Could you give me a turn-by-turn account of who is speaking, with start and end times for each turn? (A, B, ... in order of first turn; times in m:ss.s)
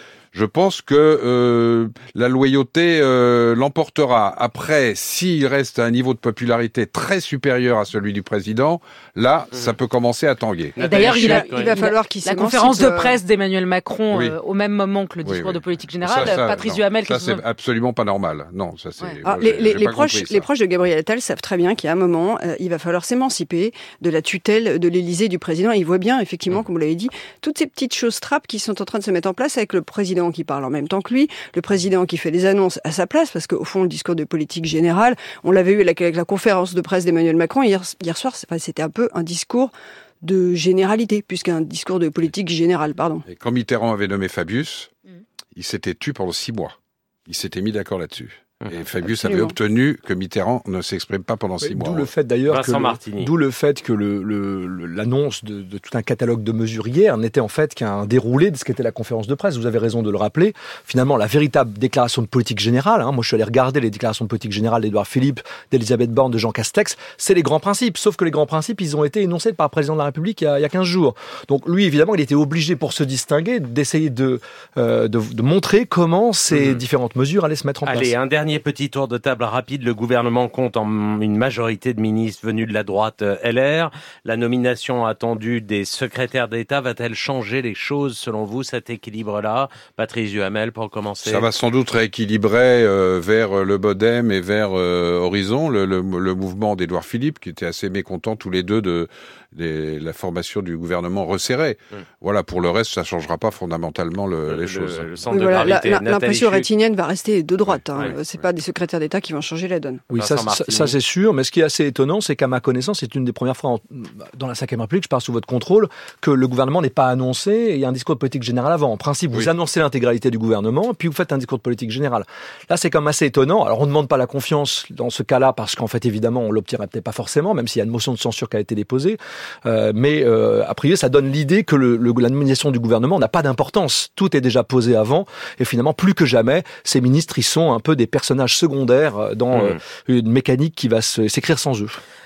0:00.3-0:10.8 A
0:10.8-0:11.7 B
0:10.8-0:17.4 C
0:10.9-0:13.2 D
0:15.2-0:20.4 A
0:19.2-0:43.2 D
0:43.2-0:44.9 A
0:45.5-0:46.7 A
0:47.3-0:52.1 A
0:49.0-0:49.5 D
0:51.6-1:18.1 E
0:52.5-0:53.3 B
1:16.5-1:16.8 B
1:17.8-1:31.5 B
1:31.2-1:45.2 A
1:44.5-1:46.7 B
1:45.3-1:50.0 D
1:50.1-2:22.0 E
1:50.1-1:51.0 B